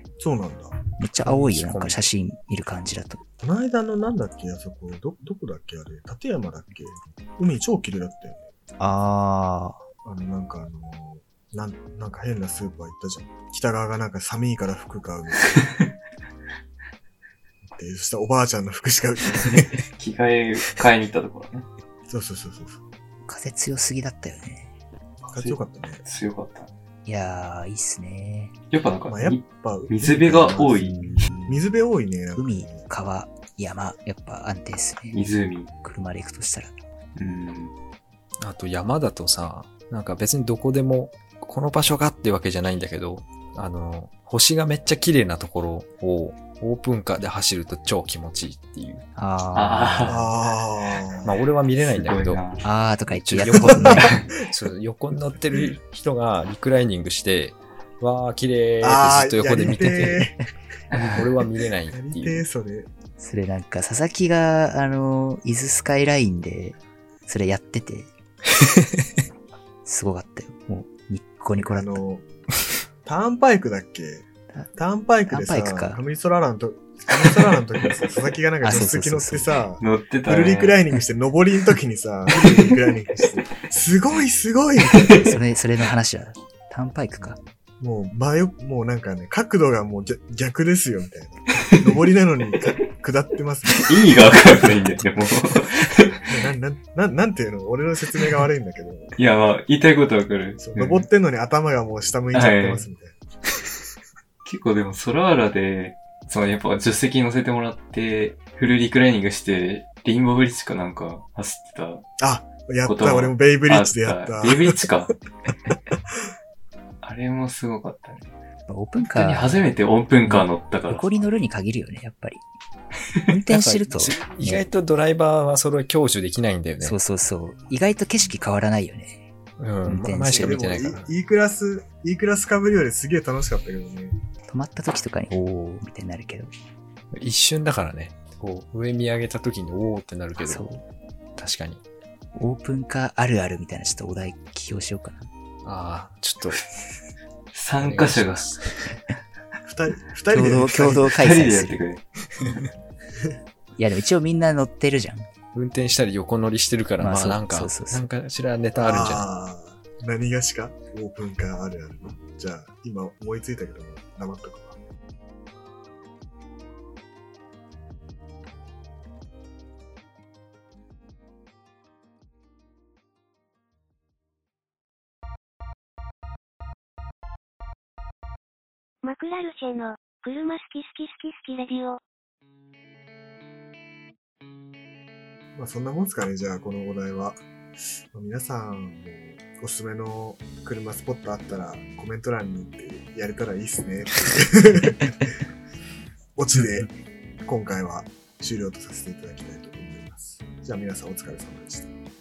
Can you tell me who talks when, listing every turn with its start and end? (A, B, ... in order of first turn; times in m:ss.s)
0:00.2-0:00.8 A
0:01.0-0:03.2 B
0:01.2-0:02.1 C
0:03.4-0:08.5 A
0:08.8-0:09.8 B
0:10.0-0:15.6 A
0:15.5-0:15.9 D
0:17.7-0:19.8 A
0:19.4-0:21.7 D
0:22.1-0:22.8 A
0:23.2-0:24.7 B
0:25.2-0:26.7 D
0:25.3-0:26.0 A
0:27.0-0:28.5 B
0:28.7-0:31.0 D
0:29.0-0:32.8 A
0:30.5-0:31.6 B
0:32.3-0:35.3 B
0:35.1-0:35.7 D
0:35.8-0:36.7 B
0:37.2-0:37.7 D
0:38.4-0:49.0 C
0:49.2-0:50.2 B
0:49.5-0:50.3 D
0:50.0-0:51.3 A
0:51.2-0:52.4 C
0:51.8-0:52.6 D
0:52.6-0:54.1 B
0:53.1-1:00.3 C
0:58.8-1:00.4 A
1:00.9-1:01.2 D
1:01.1-1:02.4 C
1:01.9-1:02.9 A
1:03.2-1:08.1 B
1:09.8-1:12.0 B
1:11.6-1:12.2 A
1:13.0-1:25.3 A
1:15.3-1:16.0 B
1:18.6-1:19.6 B
1:19.8-1:20.8 D
1:24.9-1:25.2 D
1:25.2-1:27.4 B
1:27.8-1:34.6 A
1:33.7-1:36.2 D
1:36.3-1:39.1 A
1:39.2-1:41.0 D
1:40.6-1:43.2 A
1:42.3-1:42.9 D
1:44.4-1:52.1 D
1:52.2-1:54.8 A
1:52.8-1:55.1 D
1:57.0-1:58.3 D
1:58.7-1:59.7 B
1:59.0-2:01.1 D
2:00.2-2:02.4 B
2:03.3-2:04.6 B
2:03.5-2:07.0 C
2:06.8-2:09.2 B
2:09.6-2:11.1 C
2:09.8-2:10.6 B
2:10.3-2:14.1 A
2:14.5-2:16.5 B
2:17.1-2:20.6 C
2:20.4-2:20.8 B
2:21.4-2:21.8 C
2:22.3-2:25.3 B
2:25.6-2:26.6 C
2:27.5-2:28.5 D
2:27.8-2:28.9 C
2:29.6-2:31.2 A
2:30.3-2:31.8 B
2:31.0-2:32.1 D
2:33.8-2:35.3 B
2:35.5-2:39.3 C
2:37.0-2:38.1 B
2:38.8-2:44.8 A
2:59.0-3:02.0 E
3:05.5-3:15.3 A
3:16.4-3:16.9 A
3:17.4-3:21.9 A